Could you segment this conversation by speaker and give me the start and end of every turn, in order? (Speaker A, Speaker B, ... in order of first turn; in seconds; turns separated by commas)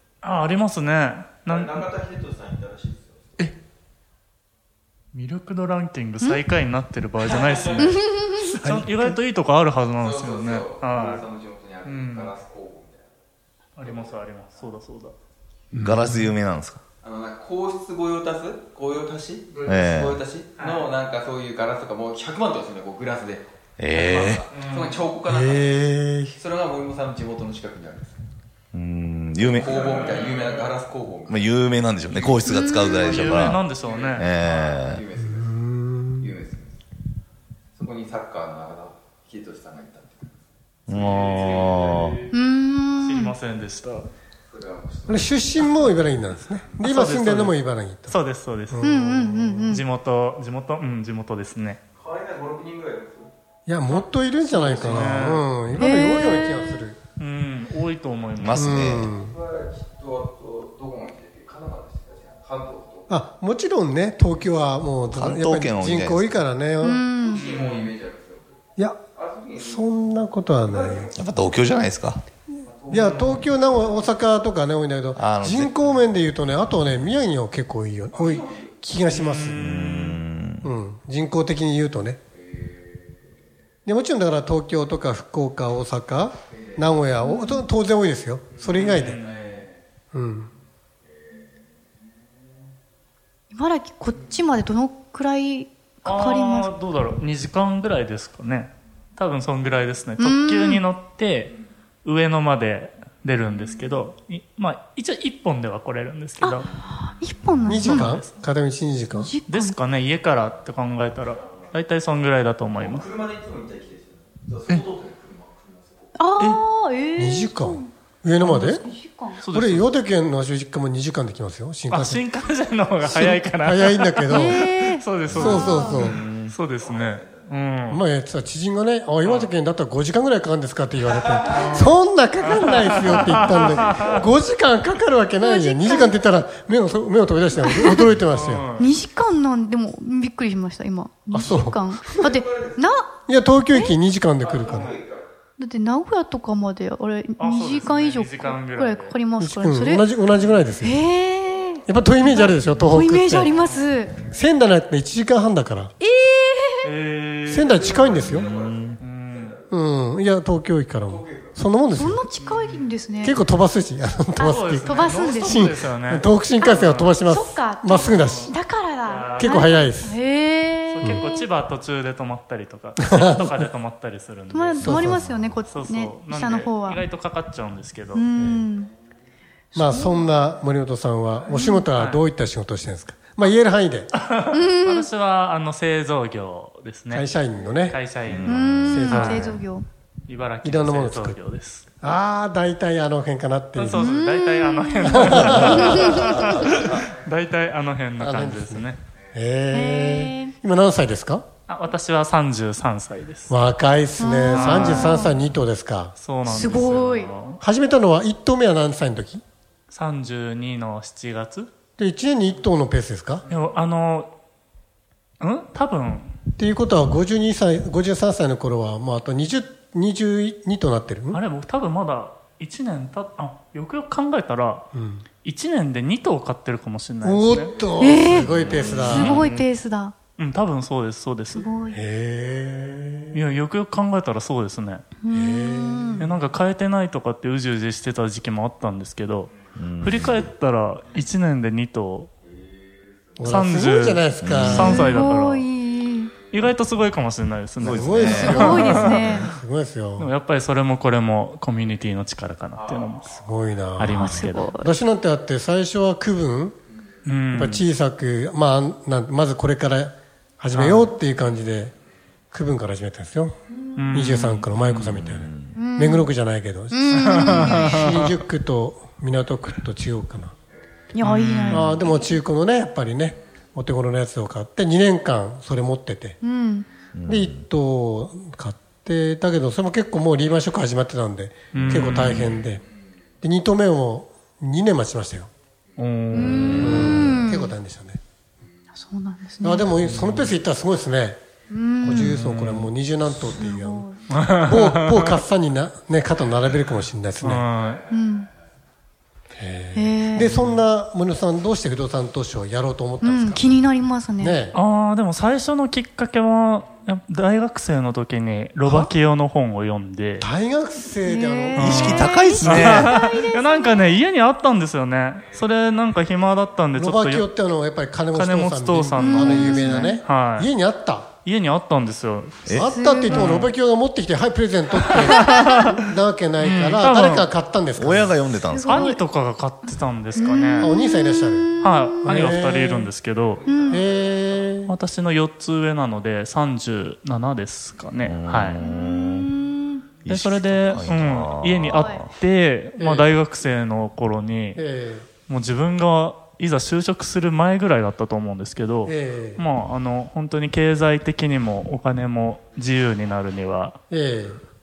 Speaker A: 0.2-1.8, Speaker B: 1.7-3.1, Speaker A: 5.1-11.2, Speaker C: 7.8-8.5, Speaker D: 8.6-9.2, Speaker B: 10.1-13.0, Speaker A: 11.8-12.3, Speaker A: 13.8-15.1, Speaker D: 15.7-16.3, Speaker E: 15.8-16.8, Speaker B: 17.0-19.6, Speaker E: 19.6-20.7, Speaker B: 20.2-23.4, Speaker E: 23.8-24.9, Speaker B: 24.3-25.5, Speaker A: 24.5-25.0, Speaker D: 25.3-26.4, Speaker B: 26.4-28.2, Speaker E: 28.7-30.6, Speaker B: 29.6-31.3, Speaker A: 29.6-30.6, Speaker E: 31.2-35.1, Speaker C: 32.4-33.0, Speaker A: 33.0-34.3, Speaker B: 33.9-35.5, Speaker D: 35.2-36.4, Speaker B: 36.2-36.6, Speaker B: 37.8-40.3, Speaker E: 40.9-42.3, Speaker C: 42.3-43.3, Speaker A: 43.0-44.1, Speaker B: 44.5-45.4, Speaker D: 45.1-48.2, Speaker A: 46.8-47.6, Speaker A: 48.1-48.8, Speaker D: 48.7-49.8, Speaker C: 48.8-49.8, Speaker A: 49.7-51.8, Speaker B: 52.0-53.3, Speaker D: 53.7-57.0, Speaker A: 54.5-55.5, Speaker C: 55.7-56.7, Speaker A: 57.2-59.0, Speaker E: 58.4-59.1, Speaker D: 58.5-59.4, Speaker B: 59.3-63.1, Speaker D: 63.1-67.1, Speaker E: 65.1-66.4, Speaker C: 66.8-67.3, Speaker B: 67.2-68.5, Speaker A: 67.3-67.9, Speaker B: 69.2-69.7, Speaker D: 69.6-71.1, Speaker E: 71.1-72.2, Speaker D: 72.9-79.6, Speaker E: 75.2-75.9, Speaker B: 78.2-78.6, Speaker A: 79.1-80.2, Speaker E: 79.6-80.7, Speaker D: 80.6-82.2, Speaker D: 83.8-89.2, Speaker C: 87.2-87.6, Speaker A: 88.7-89.5, Speaker D: 90.1-90.5, Speaker C: 93.5-96.7, Speaker A: 96.0-101.5, Speaker C: 100.2-100.8, Speaker A: 102.0-106.7, Speaker C: 106.4-108.2, Speaker D: 107.6-109.3, Speaker A: 107.6-108.3, Speaker C: 109.2-109.8, Speaker A: 109.5-113.1, Speaker B: 112.8-115.9, Speaker C: 116.2-119.4, Speaker D: 117.2-118.8, Speaker A: 119.4-119.9, Speaker D: 119.5-122.2, Speaker A: 121.9-128.0, Speaker D: 123.0-124.7, Speaker C: 124.3-126.0, Speaker E: 125.2-126.5, Speaker D: 125.2-126.2, Speaker D: 127.9-138.7, Speaker A: 129.2-129.5, Speaker A: 131.5-134.2, Speaker C: 135.4-136.1, Speaker C: 137.6-138.1, Speaker A: 138.1-138.9, Speaker C: 138.8-143.1, Speaker D: 141.3-142.1, Speaker B: 142.1-142.8, Speaker D: 143.3-145.0, Speaker B: 144.5-145.2, Speaker C: 145.6-150.1, Speaker A: 147.4-149.2, Speaker D: 149.4-151.0, Speaker C: 150.8-154.2, Speaker D: 151.8-153.5, Speaker A: 153.4-153.8, Speaker D: 154.2-155.9, Speaker C: 156.0-156.9, Speaker A: 156.8-158.4, Speaker D: 157.4-158.5, Speaker E: 157.8-159.0, Speaker B: 158.3-158.7, Speaker A: 159.0-159.5, Speaker D: 159.7-162.2, Speaker B: 161.2-161.5, Speaker C: 161.9-163.3, Speaker A: 162.4-162.8, Speaker D: 163.2-168.6, Speaker C: 164.4-165.7, Speaker A: 164.4-167.1, Speaker C: 166.6-171.5, Speaker A: 167.9-170.0, Speaker D: 169.4-170.2, Speaker A: 170.9-175.2, Speaker D: 173.0-173.6, Speaker C: 174.5-177.0, Speaker D: 174.8-175.6, Speaker A: 175.7-178.2, Speaker C: 178.1-178.9, Speaker C: 179.7-180.4, Speaker D: 179.7-184.1, Speaker C: 181.5-181.9, Speaker A: 181.9-182.2, Speaker A: 184.1-187.3, Speaker C: 184.5-185.1, Speaker D: 187.1-188.0, Speaker A: 187.9-189.6, Speaker E: 188.3-189.1, Speaker D: 188.8-189.6, Speaker C: 188.9-189.9, Speaker A: 190.3-191.8, Speaker D: 190.6-191.4, Speaker D: 192.0-194.1, Speaker A: 193.8-199.0, Speaker C: 193.9-196.4, Speaker D: 195.1-196.8, Speaker D: 198.2-201.4, Speaker C: 199.7-200.5, Speaker A: 201.7-203.6, Speaker D: 203.5-206.1, Speaker C: 204.2-205.3, Speaker A: 204.5-205.3, Speaker A: 206.2-207.6, Speaker C: 206.4-207.3, Speaker D: 207.6-209.4, Speaker A: 209.9-211.7, Speaker D: 212.0-213.4, Speaker A: 213.5-214.3, Speaker A: 215.4-216.3, Speaker D: 216.6-221.4, Speaker A: 221.3-224.8, Speaker D: 224.9-225.2, Speaker A: 225.4-229.7, Speaker D: 227.2-229.4, Speaker C: 228.0-228.4, Speaker C: 229.1-230.1, Speaker A: 230.4-231.7, Speaker C: 231.5-232.0, Speaker D: 231.9-233.5, Speaker A: 233.3-235.0, Speaker C: 235.2-236.2, Speaker D: 235.3-236.3, Speaker A: 236.2-242.3, Speaker E: 239.8-240.4, Speaker D: 243.4-245.2, Speaker A: 243.4-245.7, Speaker E: 244.4-245.0, Speaker C: 244.8-246.3, Speaker A: 246.5-249.5, Speaker E: 247.8-248.7, Speaker D: 247.8-250.3, Speaker C: 248.4-249.5, Speaker A: 250.2-253.3, Speaker D: 253.3-256.8, Speaker A: 254.0-254.7, Speaker C: 254.1-254.9, Speaker A: 257.2-257.8, Speaker D: 257.5-261.9, Speaker A: 260.7-261.1, Speaker D: 262.5-263.5, Speaker C: 263.7-264.1, Speaker A: 263.9-265.2, Speaker D: 264.1-270.5, Speaker E: 265.0-265.8, Speaker C: 265.7-266.3, Speaker C: 266.9-268.1, Speaker A: 267.1-268.2, Speaker C: 271.1-272.3, Speaker A: 271.2-272.0, Speaker D: 271.7-276.4, Speaker C: 276.4-276.9, Speaker E: 277.1-277.6, Speaker D: 277.3-282.8, Speaker A: 281.7-282.6, Speaker D: 283.4-285.5, Speaker A: 286.0-287.3, Speaker C: 286.3-287.7, Speaker E: 286.5-287.2, Speaker D: 286.8-288.2, Speaker C: 288.9-289.9, Speaker D: 289.6-291.4, Speaker A: 290.0-290.5, Speaker C: 291.7-292.4, Speaker D: 292.0-297.6, Speaker A: 292.1-292.9, Speaker C: 293.4-294.2, Speaker A: 294.3-295.4, Speaker A: 297.4-298.0, Speaker C: 298.1-298.5, Speaker D: 299.6-303.8, Speaker C: 299.9-300.5, Speaker A: 300.4-300.8, Speaker C: 303.2-304.6, Speaker D: 304.4-304.8, Speaker A: 304.7-310.5, Speaker D: 308.8-309.1, Speaker D: 310.4-312.9, Speaker C: 311.2-314.2, Speaker A: 311.7-317.5, Speaker E: 311.8-313.1, Speaker D: 316.9-321.3, Speaker A: 318.3-320.7, Speaker C: 319.2-320.1, Speaker A: 321.4-323.7, Speaker D: 322.7-328.4, Speaker C: 322.9-323.5, Speaker A: 325.1-326.0, Speaker C: 325.3-325.9, Speaker A: 326.6-327.5, Speaker E: 328.0-329.0, Speaker C: 328.7-329.2, Speaker A: 328.9-330.9, Speaker C: 330.4-332.2, Speaker D: 330.8-333.1, Speaker A: 331.8-333.6, Speaker C: 333.6-334.0, Speaker D: 333.9-334.9, Speaker A: 334.9-338.8, Speaker E: 338.2-339.5, Speaker C: 338.8-340.1, Speaker E: 340.2-342.3, Speaker A: 340.3-344.8, Speaker C: 341.9-342.2, Speaker D: 343.0-343.3, Speaker D: 344.8-345.3, Speaker A: 345.5-354.0, Speaker D: 349.0-349.6, Speaker D: 354.1-354.6